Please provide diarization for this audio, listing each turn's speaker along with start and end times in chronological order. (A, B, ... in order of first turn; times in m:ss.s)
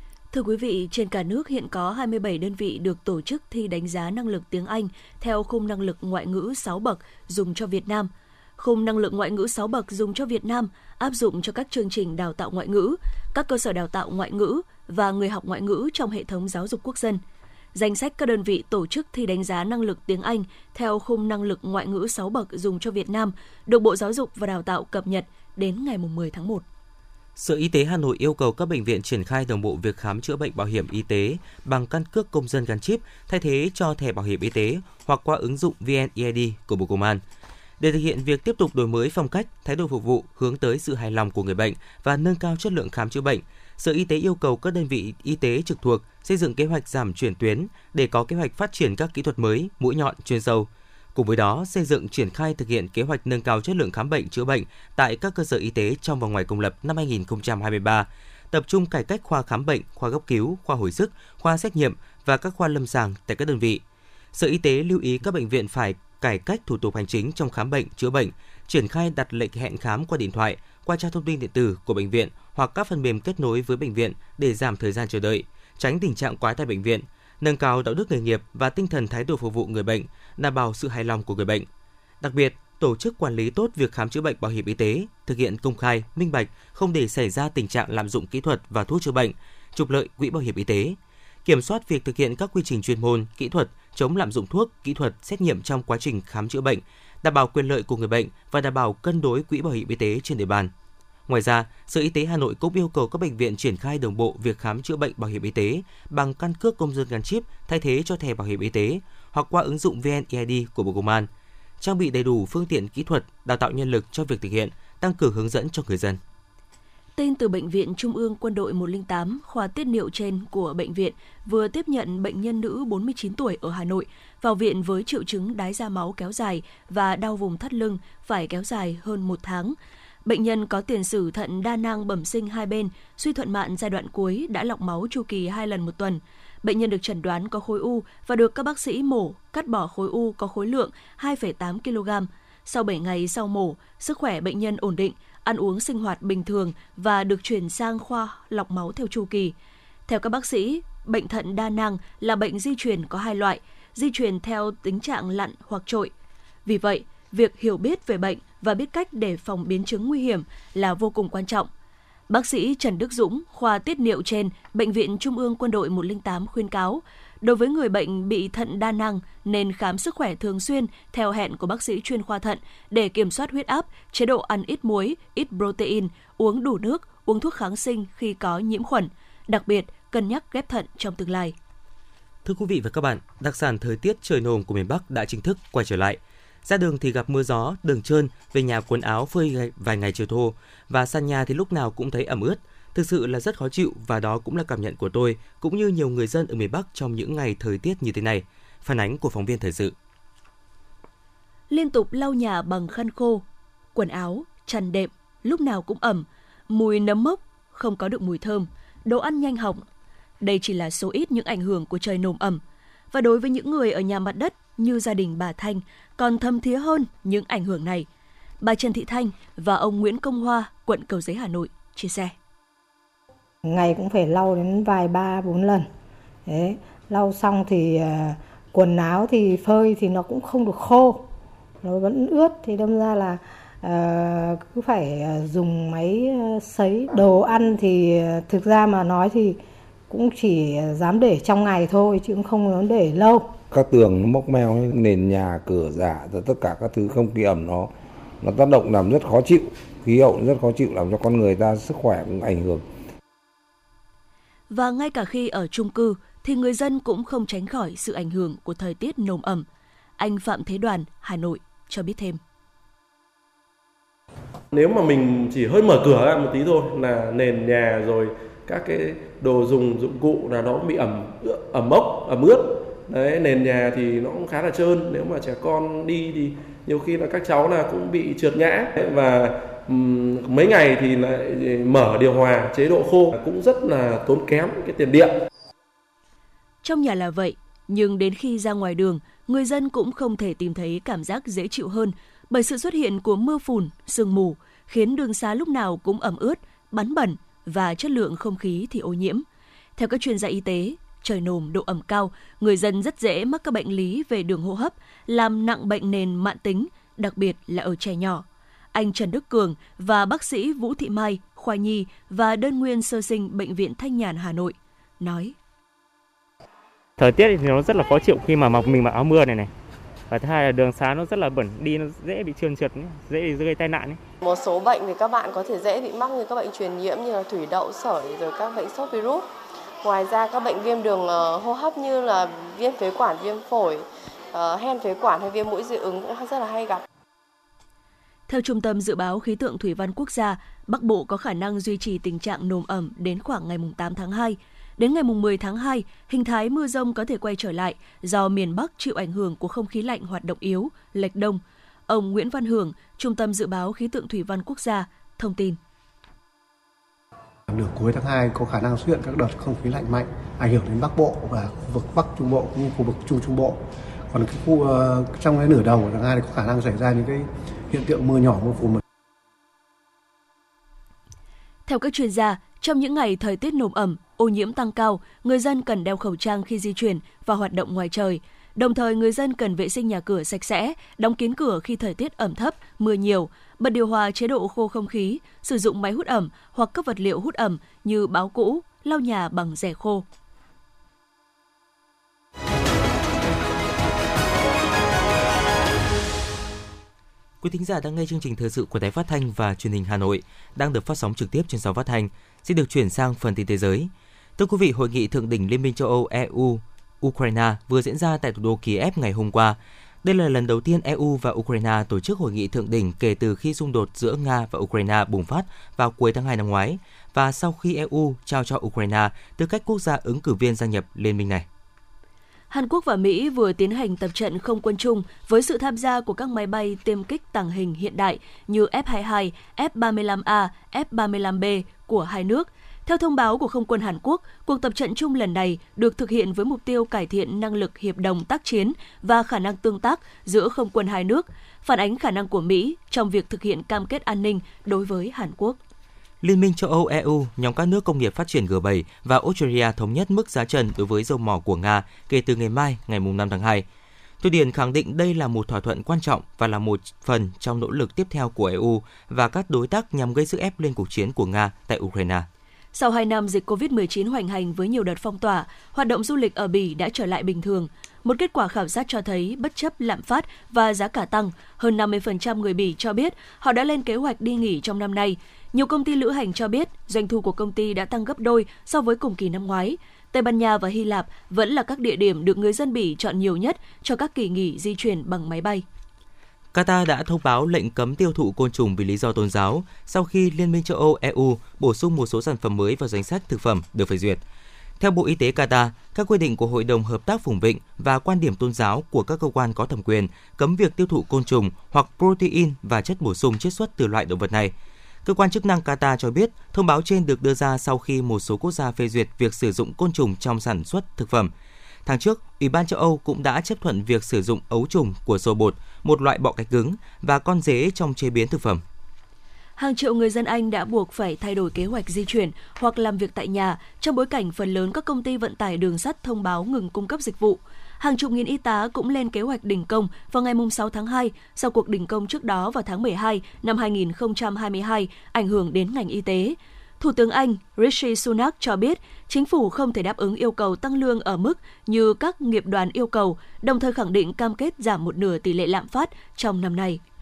0:00.3-0:17.2 A
0:17.7-0:26.6 A
0:27.4-0:37.2 B
0:37.8-1:03.8 B
1:04.3-1:21.6 B
1:22.2-1:40.7 B
1:41.3-1:51.3 B
1:51.8-1:56.2 B
1:57.2-2:29.5 A
2:30.1-2:36.1 A
2:36.6-2:41.7 A
2:42.3-3:01.5 A
3:02.4-3:19.9 B
3:21.7-3:23.4 A
3:23.9-3:29.8 A
3:30.4-3:32.6 A
3:33.1-3:38.1 A
3:38.6-3:42.3 A
3:43.6-3:45.9 C
3:46.5-3:51.2 C
3:51.8-3:59.6 C
4:00.1-4:03.5 C
4:03.7-4:12.8 D
4:14.7-4:19.6 A
4:20.2-4:22.4 A
4:24.7-4:45.3 E
4:46.8-4:59.4 A
5:00.0-5:15.6 A
5:17.2-5:19.7 F
5:20.3-5:24.2 F
5:24.4-5:29.5 G
5:30.0-5:37.0 G
5:38.5-5:55.8 A
5:57.7-6:03.8 H
6:04.3-6:09.0 H
6:11.9-6:30.2 A
6:37.6-7:01.6 B
7:02.7-7:25.8 A
7:26.4-7:33.8 B
7:34.4-7:42.5 B
7:42.9-8:05.8 A
8:06.7-8:14.4 B
8:15.0-8:24.7 B
8:25.2-8:31.5 B
8:32.0-8:38.8 B
8:39.8-9:07.0 A